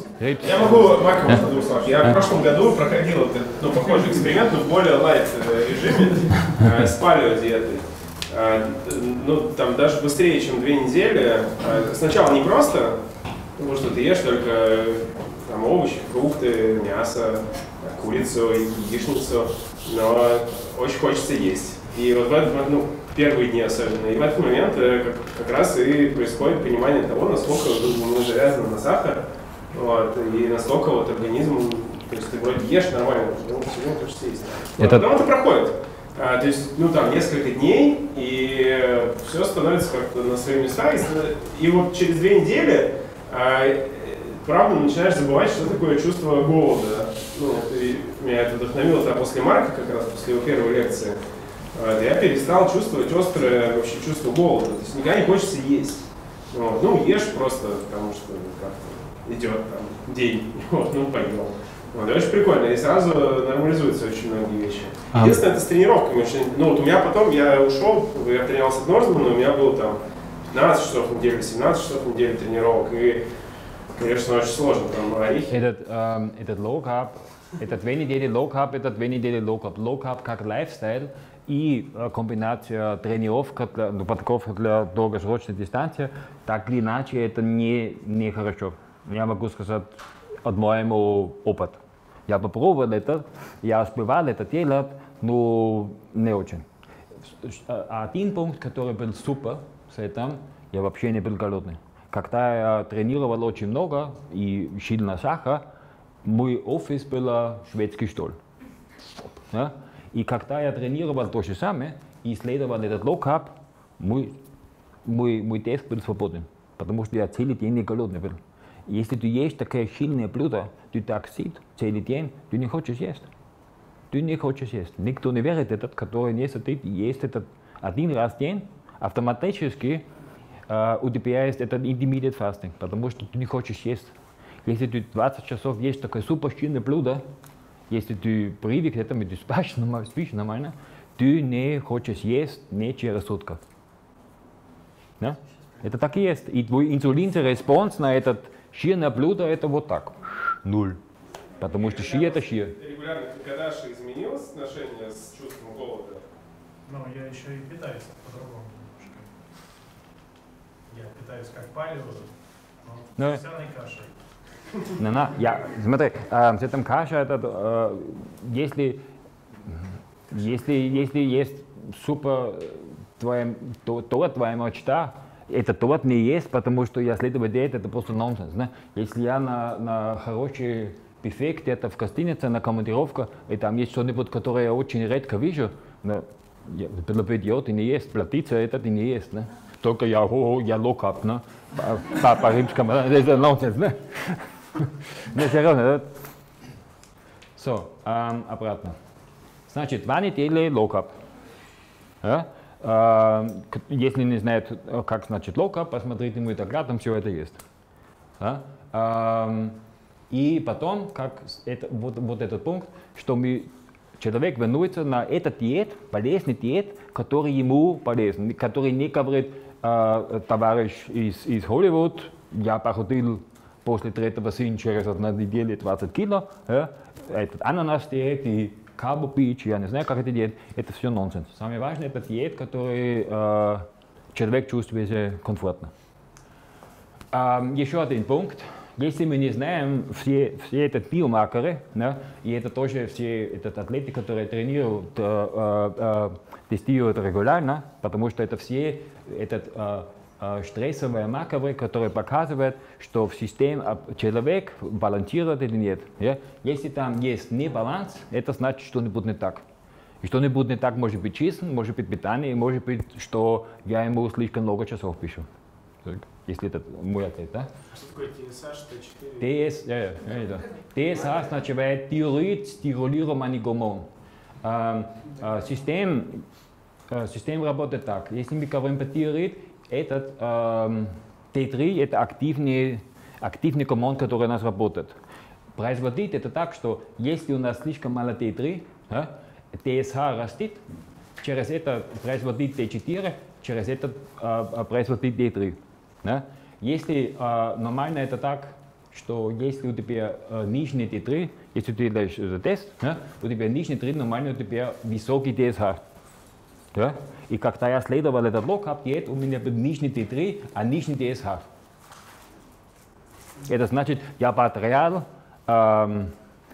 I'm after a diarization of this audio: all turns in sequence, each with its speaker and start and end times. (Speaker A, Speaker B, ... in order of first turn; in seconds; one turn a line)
Speaker A: 0.2-1.4
Speaker B: 0.4-13.0
Speaker B: 13.6-51.2
Speaker A: 34.8-35.1
Speaker B: 51.7-73.3
Speaker A: 65.1-65.4
Speaker B: 73.9-75.5
Speaker A: 75.5-96.6
Speaker A: 97.4-105.6
Speaker A: 106.2-108.4
Speaker A: 109.5-114.3
Speaker A: 115.0-123.3
Speaker A: 124.1-130.0
Speaker A: 130.7-134.1
Speaker A: 134.6-137.2
Speaker A: 137.9-143.6
Speaker A: 145.2-151.0
Speaker A: 151.6-152.7
Speaker B: 151.8-156.2
Speaker C: 156.8-159.3
Speaker C: 160.9-162.3
Speaker C: 162.8-164.1
Speaker A: 163.2-163.4
Speaker A: 165.0-169.0
Speaker A: 170.3-196.1
Speaker A: 197.6-198.9
Speaker A: 199.7-201.2
Speaker A: 202.2-207.6
Speaker A: 208.4-209.8
Speaker A: 210.3-235.9
Speaker A: 237.3-259.6
Speaker A: 260.2-265.4
Speaker A: 266.0-267.7
Speaker B: 267.9-269.4
Speaker A: 269.4-274.1
Speaker A: 274.6-276.4
Speaker A: 277.1-285.1
Speaker A: 285.8-290.8
Speaker A: 291.4-306.0
Speaker A: 306.9-311.6
Speaker A: 313.6-316.3